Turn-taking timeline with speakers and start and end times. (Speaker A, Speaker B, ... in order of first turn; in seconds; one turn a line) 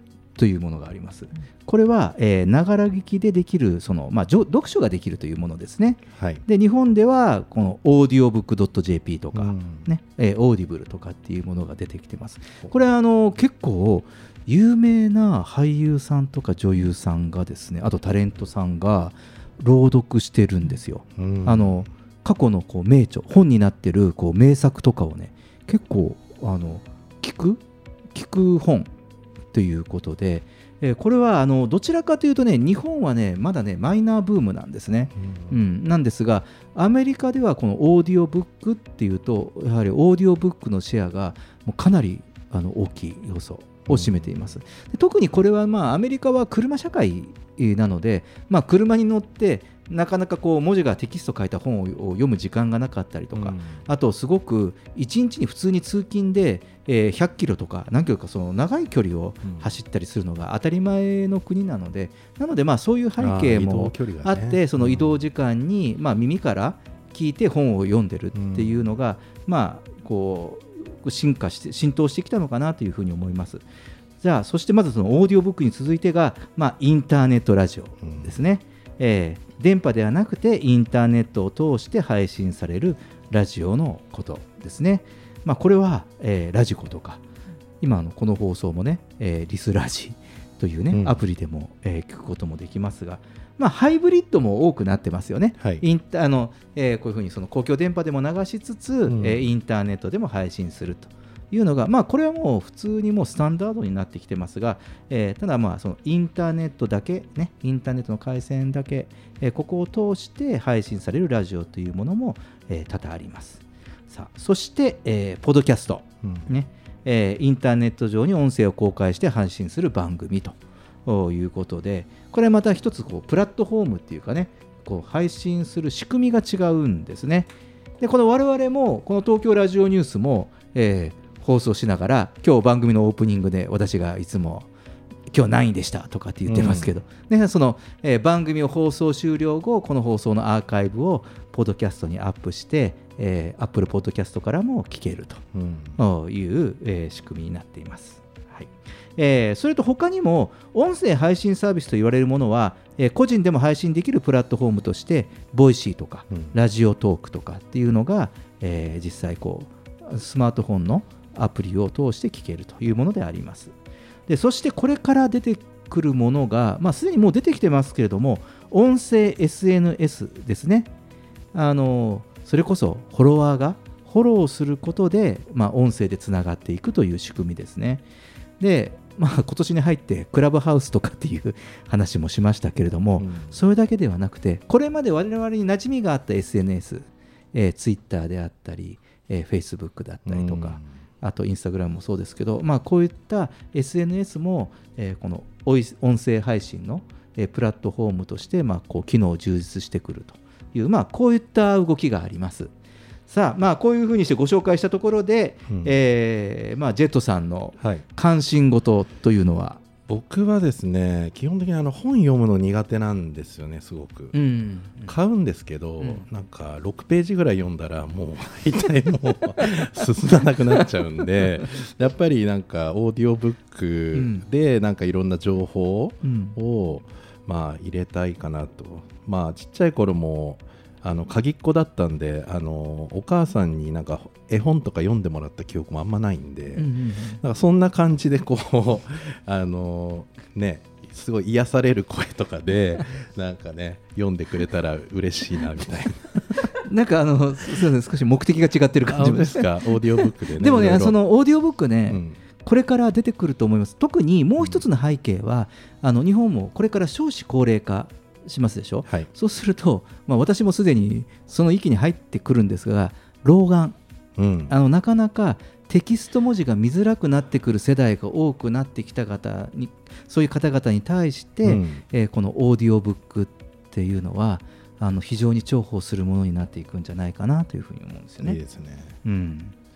Speaker A: 0.4-27.6
Speaker B: 6.2-6.4
Speaker B: 9.3-9.9
Speaker B: 21.1-21.9
Speaker A: 28.1-28.9
Speaker A: 29.5-73.6
Speaker B: 35.2-35.6
Speaker B: 43.9-44.6
Speaker B: 53.3-53.8
Speaker B: 63.2-65.2
Speaker B: 68.3-68.9
Speaker A: 74.2-87.2
Speaker B: 78.0-78.3
Speaker A: 87.8-134.7
Speaker B: 99.1-99.5
Speaker B: 116.2-116.5
Speaker A: 135.3-145.4
Speaker B: 136.5-136.9
Speaker B: 145.5-146.0
Speaker A: 146.0-163.7
Speaker A: 164.3-170.9
Speaker A: 171.5-178.0
Speaker A: 178.6-202.7
Speaker B: 183.2-183.6
Speaker B: 190.2-190.9
Speaker A: 203.3-209.8
Speaker B: 210.1-214.3
Speaker A: 214.3-215.1
Speaker B: 215.0-246.7
Speaker A: 216.0-216.3
Speaker A: 224.1-224.4
Speaker A: 226.2-226.6
Speaker A: 236.8-237.4
Speaker A: 246.8-264.0
Speaker B: 249.1-251.2
Speaker B: 252.1-252.4
Speaker B: 264.4-264.7
Speaker A: 264.7-278.6
Speaker B: 271.6-272.0
Speaker B: 278.4-279.2
Speaker A: 279.2-279.7